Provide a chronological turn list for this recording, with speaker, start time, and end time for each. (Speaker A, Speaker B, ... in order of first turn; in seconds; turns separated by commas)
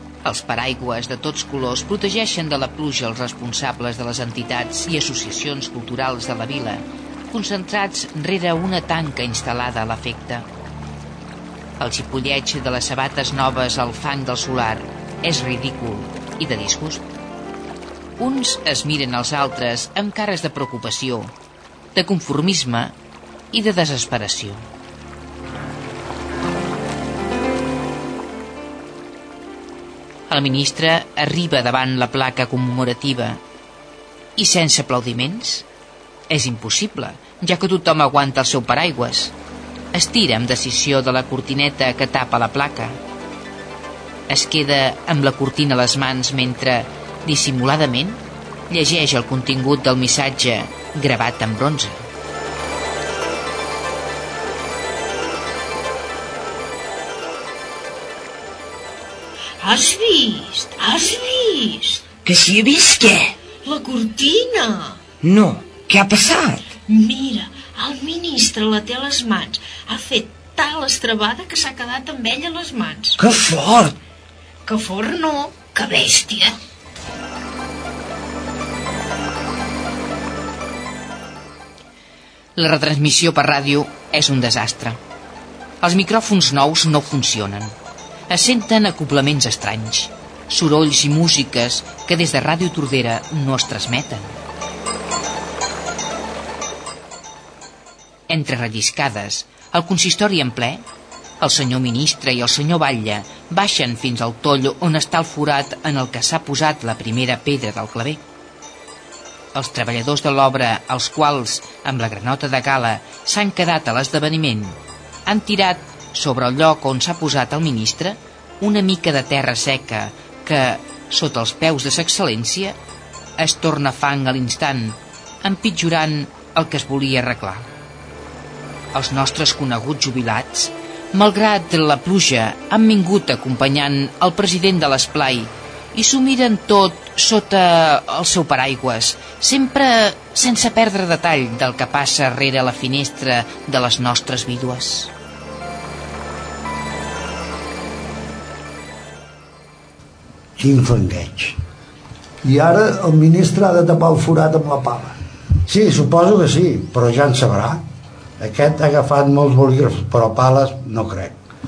Speaker A: 0.2-10.5, Speaker A: 11.8-17.0, Speaker A: 18.2-21.3, Speaker A: 21.9-22.9, Speaker A: 23.5-24.7, Speaker A: 30.3-33.4, Speaker A: 34.4-35.7, Speaker A: 36.3-39.3, Speaker A: 39.9-43.0, Speaker A: 44.3-52.1, Speaker B: 59.6-62.1, Speaker C: 62.2-63.4, Speaker B: 63.6-65.0, Speaker C: 65.2-66.7, Speaker B: 66.9-73.2, Speaker C: 73.2-74.0, Speaker B: 74.7-76.6, Speaker A: 82.6-85.0, Speaker A: 85.8-87.8, Speaker A: 88.3-94.4, Speaker A: 98.3-100.8, Speaker A: 101.4-108.2, Speaker A: 109.5-122.8, Speaker A: 123.4-127.7, Speaker A: 128.9-145.1, Speaker D: 150.6-151.6, Speaker E: 152.4-155.2, Speaker D: 155.7-157.8, Speaker D: 158.4-161.4